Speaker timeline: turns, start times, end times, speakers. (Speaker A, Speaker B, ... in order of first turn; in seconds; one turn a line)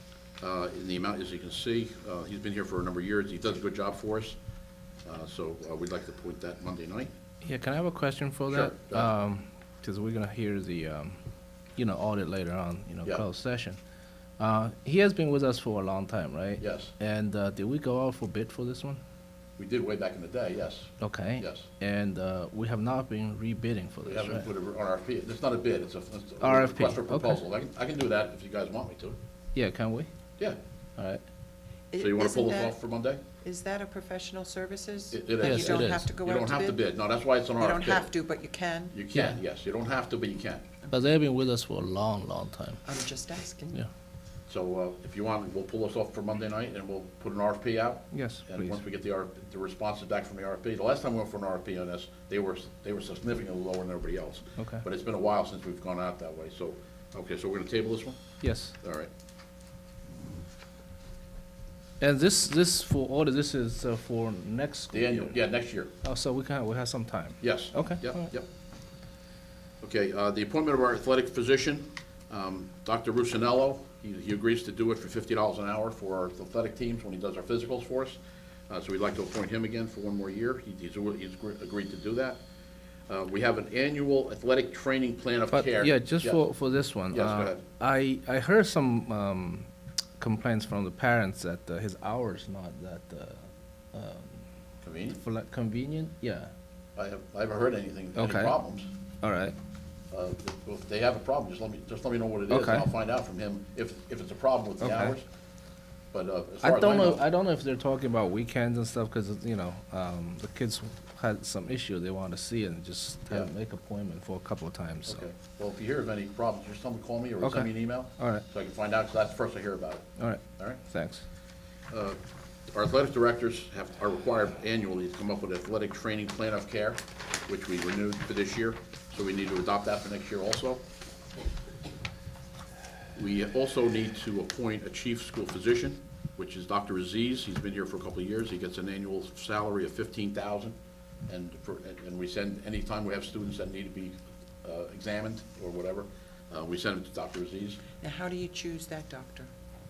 Speaker A: 0.4-4.4
Speaker A: 5.0-7.1
Speaker B: 7.4-11.2
Speaker A: 8.5-9.1
Speaker B: 11.8-13.8
Speaker B: 14.4-19.0
Speaker A: 16.6-16.9
Speaker A: 19.6-21.7
Speaker B: 21.0-24.5
Speaker A: 24.1-29.2
Speaker B: 26.4-27.4
Speaker B: 29.6-30.1
Speaker C: 31.9-32.8
Speaker A: 32.0-33.2
Speaker C: 33.4-36.8
Speaker A: 35.1-38.1
Speaker B: 35.4-36.1
Speaker C: 37.6-38.9
Speaker A: 38.9-40.7
Speaker B: 39.1-39.4
Speaker B: 40.9-42.8
Speaker C: 42.9-43.8
Speaker A: 44.5-58.2
Speaker B: 48.1-48.8
Speaker B: 54.6-54.8
Speaker B: 58.4-58.8
Speaker A: 58.8-59.1
Speaker B: 62.0-65.4
Speaker A: 64.9-65.9
Speaker B: 66.0-68.3
Speaker A: 67.4-68.5
Speaker A: 69.8-78.2
Speaker A: 78.7-82.4
Speaker A: 83.1-86.4
Speaker B: 85.5-94.4
Speaker A: 87.1-87.6
Speaker A: 94.8-95.2
Speaker B: 95.2-96.5
Speaker A: 97.0-98.9
Speaker B: 98.2-98.6
Speaker B: 99.2-99.5
Speaker A: 100.1-105.2
Speaker B: 102.5-102.9
Speaker B: 104.8-105.1
Speaker A: 106.1-107.2
Speaker B: 106.6-115.2
Speaker A: 115.1-120.0
Speaker B: 117.4-118.5
Speaker B: 120.2-121.2
Speaker A: 121.9-122.2
Speaker A: 122.7-130.8
Speaker A: 133.2-140.8
Speaker A: 141.3-147.8
Speaker C: 148.0-149.5